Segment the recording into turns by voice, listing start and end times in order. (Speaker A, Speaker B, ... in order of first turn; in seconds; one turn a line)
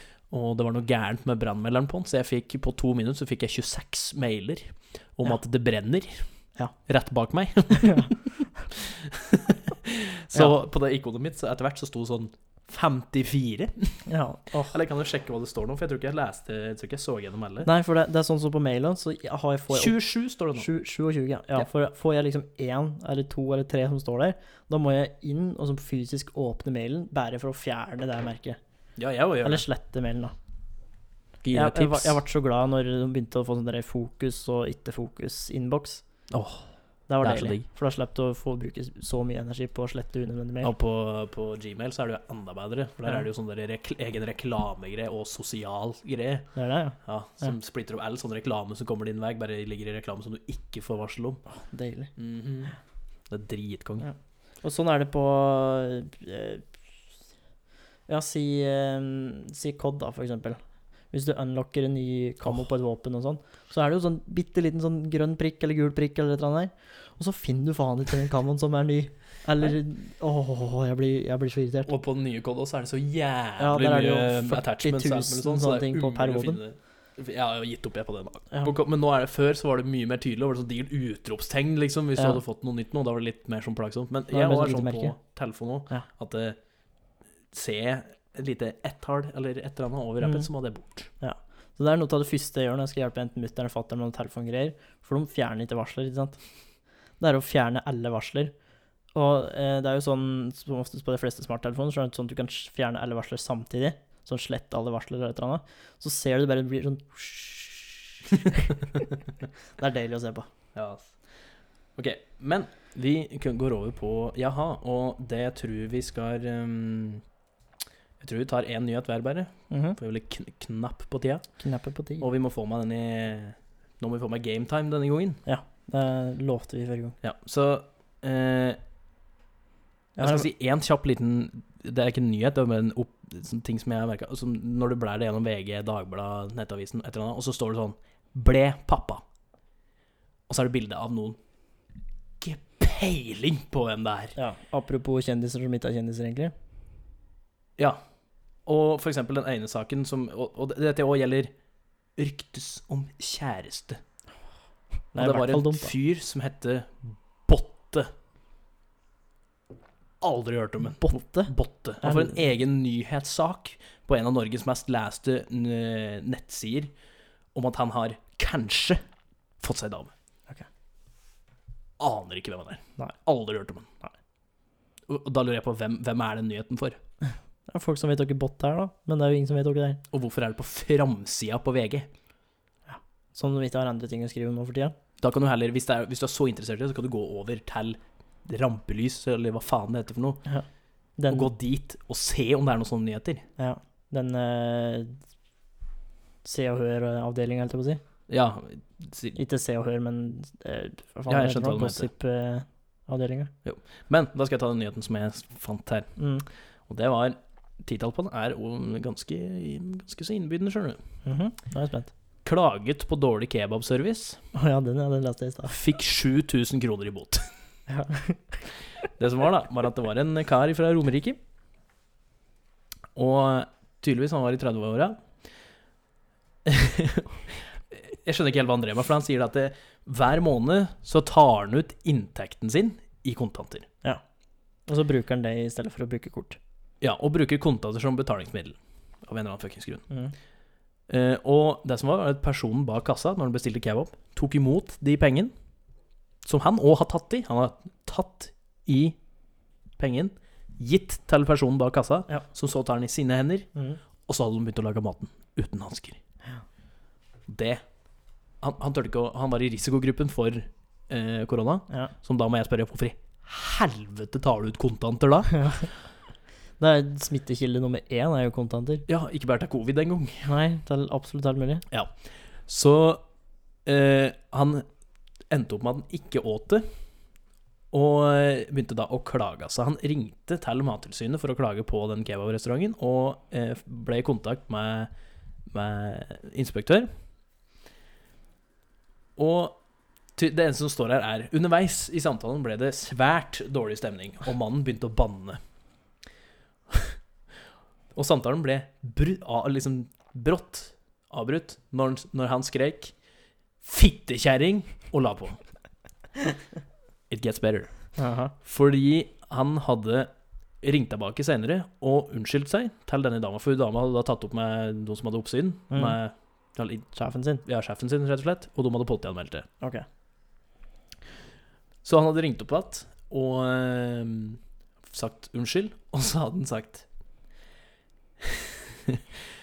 Speaker A: 0.3-6.2
Speaker A: 6.9-14.1
Speaker B: 7.8-8.1
Speaker B: 14.1-14.8
Speaker A: 14.6-17.7
Speaker B: 17.6-20.0
Speaker A: 19.7-20.7
Speaker B: 20.6-28.6
Speaker A: 29.0-29.6
Speaker B: 29.4-30.4
Speaker A: 31.4-32.2
Speaker B: 31.5-36.0
Speaker A: 36.3-36.7
Speaker B: 37.1-40.7
Speaker A: 37.2-37.6
Speaker A: 40.6-46.5
Speaker B: 46.5-47.5
Speaker A: 47.0-51.4
Speaker B: 51.5-52.1
Speaker A: 52.2-52.8
Speaker A: 53.3-54.1
Speaker B: 54.0-56.7
Speaker B: 58.1-60.6
Speaker B: 61.1-71.9
Speaker A: 71.9-86.6
Speaker B: 73.6-76.6
Speaker B: 84.3-85.2
Speaker A: 87.5-91.1
Speaker B: 90.2-90.5
Speaker B: 91.2-96.4
Speaker B: 97.2-98.5
Speaker B: 99.1-108.8
Speaker B: 109.8-110.5
Speaker A: 110.8-111.2
Speaker A: 112.0-117.2
Speaker A: 118.2-121.4
Speaker B: 119.7-120.0
Speaker B: 121.6-122.2
Speaker A: 122.2-125.4
Speaker B: 125.5-127.2
Speaker A: 127.2-128.8
Speaker B: 130.2-130.5
Speaker A: 130.2-139.2
Speaker A: 140.5-141.4
Speaker A: 142.4-144.4
Speaker B: 144.4-146.5
Speaker A: 148.7-151.5
Speaker A: 152.2-154.0
Speaker B: 155.1-155.9
Speaker A: 155.2-158.1
Speaker A: 160.2-166.9
Speaker B: 161.0-162.4
Speaker A: 167.5-169.0
Speaker A: 169.6-170.1
Speaker A: 172.0-173.9
Speaker A: 175.1-177.0
Speaker B: 177.7-180.0
Speaker A: 180.1-182.1
Speaker B: 182.9-184.9
Speaker A: 185.2-190.4
Speaker B: 190.5-191.5
Speaker A: 191.3-193.4
Speaker B: 193.6-195.2
Speaker B: 196.4-198.0
Speaker A: 198.3-199.4
Speaker B: 199.4-203.5
Speaker A: 201.3-202.1
Speaker A: 203.7-206.1
Speaker B: 206.2-206.4
Speaker A: 206.9-211.0
Speaker B: 211.2-212.1
Speaker A: 212.4-214.4
Speaker B: 214.5-215.8
Speaker A: 215.7-217.5
Speaker B: 217.9-218.6
Speaker A: 219.2-221.4
Speaker A: 223.2-225.2
Speaker A: 226.7-233.9
Speaker B: 234.9-236.6
Speaker A: 237.0-240.0
Speaker A: 241.1-245.5
Speaker A: 246.4-249.2
Speaker A: 250.0-253.7
Speaker A: 254.3-256.2
Speaker A: 257.5-257.8
Speaker A: 258.6-265.9
Speaker B: 266.8-269.1
Speaker A: 269.1-270.5
Speaker B: 270.4-271.9
Speaker A: 272.7-273.2
Speaker A: 273.9-274.9
Speaker A: 275.5-276.9
Speaker A: 277.9-285.1
Speaker A: 285.7-287.1
Speaker A: 289.4-289.8
Speaker A: 290.4-295.6
Speaker A: 298.1-303.1
Speaker A: 303.8-305.6
Speaker A: 307.3-308.1
Speaker B: 308.2-308.5
Speaker A: 308.6-310.3
Speaker A: 310.8-317.1
Speaker B: 315.9-316.2
Speaker B: 317.1-317.6
Speaker A: 317.6-319.7
Speaker A: 322.0-327.1
Speaker A: 328.4-329.2